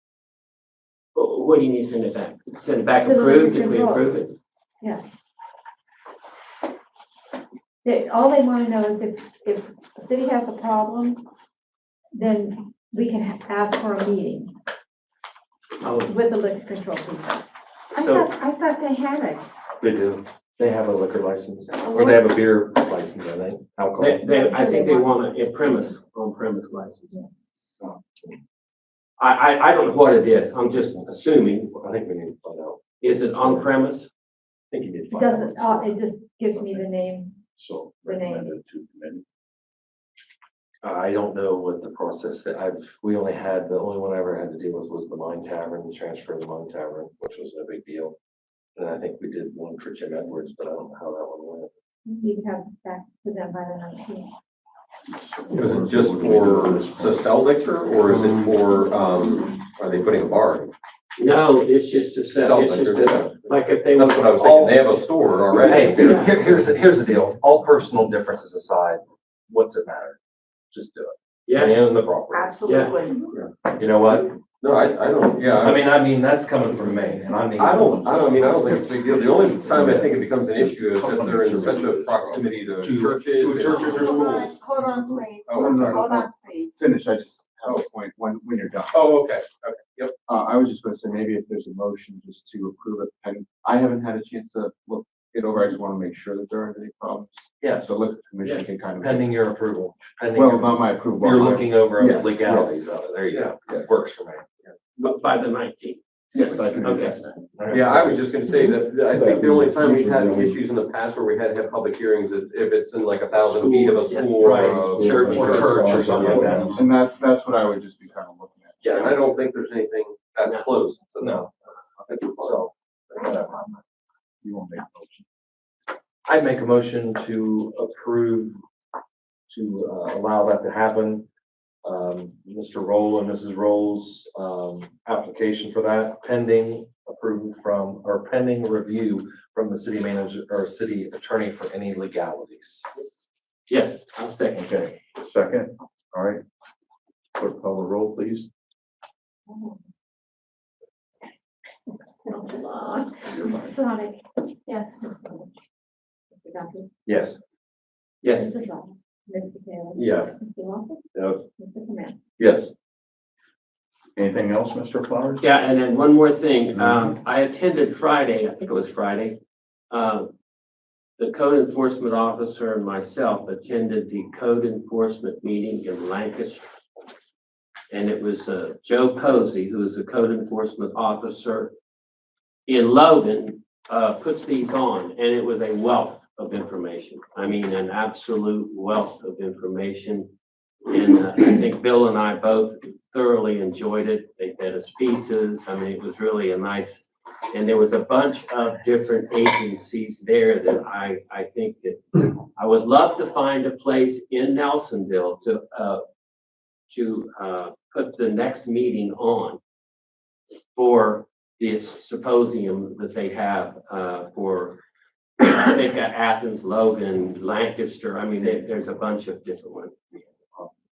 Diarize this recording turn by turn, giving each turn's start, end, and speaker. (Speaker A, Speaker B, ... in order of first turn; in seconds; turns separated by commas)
Speaker A: 1.1-4.3, Speaker B: 3.0-4.1, Speaker B: 7.8-11.2, Speaker B: 12.1-14.5, Speaker A: 15.8-16.1, Speaker B: 16.0-17.4, Speaker A: 17.9-18.3, Speaker C: 17.9-19.4, Speaker D: 19.8-24.2, Speaker A: 24.0-27.2, Speaker B: 24.2-25.2, Speaker A: 29.2-31.7, Speaker D: 31.6-33.7, Speaker A: 33.0-34.1, Speaker D: 34.7-36.0, Speaker B: 35.1-37.4, Speaker E: 37.6-39.2, Speaker B: 38.0-38.5, Speaker D: 40.8-48.2, Speaker D: 48.8-51.7, Speaker B: 52.1-54.3, Speaker E: 55.1-57.2, Speaker F: 55.5-60.7, Speaker A: 61.2-64.9, Speaker F: 62.4-63.3, Speaker F: 64.0-66.2, Speaker D: 65.5-70.2, Speaker A: 65.9-66.3, Speaker D: 70.7-72.7, Speaker A: 71.5-71.8, Speaker A: 72.7-73.0, Speaker D: 73.8-74.4, Speaker F: 74.6-75.9, Speaker D: 75.6-78.2, Speaker E: 77.6-78.6, Speaker F: 77.6-84.6, Speaker E: 79.7-80.1, Speaker E: 80.6-82.5, Speaker G: 82.8-84.5, Speaker D: 82.9-83.2, Speaker C: 83.7-86.7, Speaker D: 83.8-84.0, Speaker G: 85.5-89.0, Speaker F: 85.5-86.0, Speaker F: 88.9-90.1, Speaker G: 90.3-99.4, Speaker D: 97.6-97.9, Speaker D: 98.4-104.7, Speaker G: 100.3-102.9, Speaker G: 103.6-103.9, Speaker A: 105.0-106.0, Speaker G: 106.3-107.7, Speaker A: 106.7-107.2, Speaker D: 107.6-108.2, Speaker F: 107.7-115.2, Speaker C: 109.1-110.5, Speaker A: 114.0-116.2, Speaker C: 114.6-116.7, Speaker D: 114.7-116.8, Speaker G: 115.3-119.2, Speaker F: 116.0-116.6, Speaker F: 118.8-121.5, Speaker A: 118.9-119.1, Speaker D: 121.2-121.5, Speaker F: 122.1-122.7, Speaker G: 122.5-123.8, Speaker G: 124.4-125.2, Speaker D: 126.3-128.6, Speaker D: 129.5-131.3, Speaker D: 131.8-142.9, Speaker A: 143.7-144.9, Speaker E: 145.2-146.4, Speaker E: 147.4-148.5, Speaker B: 149.5-149.8, Speaker B: 152.2-155.5, Speaker B: 156.3-156.9, Speaker D: 157.1-157.4, Speaker B: 158.3-162.2, Speaker F: 160.0-160.3, Speaker E: 162.4-162.7, Speaker E: 164.2-165.4, Speaker A: 165.4-169.4, Speaker E: 166.8-167.1, Speaker A: 169.9-170.3, Speaker A: 171.2-176.7, Speaker A: 177.9-181.7, Speaker A: 182.7-190.3, Speaker A: 190.9-206.0, Speaker A: 206.9-209.6, Speaker A: 210.8-214.8, Speaker A: 215.4-220.1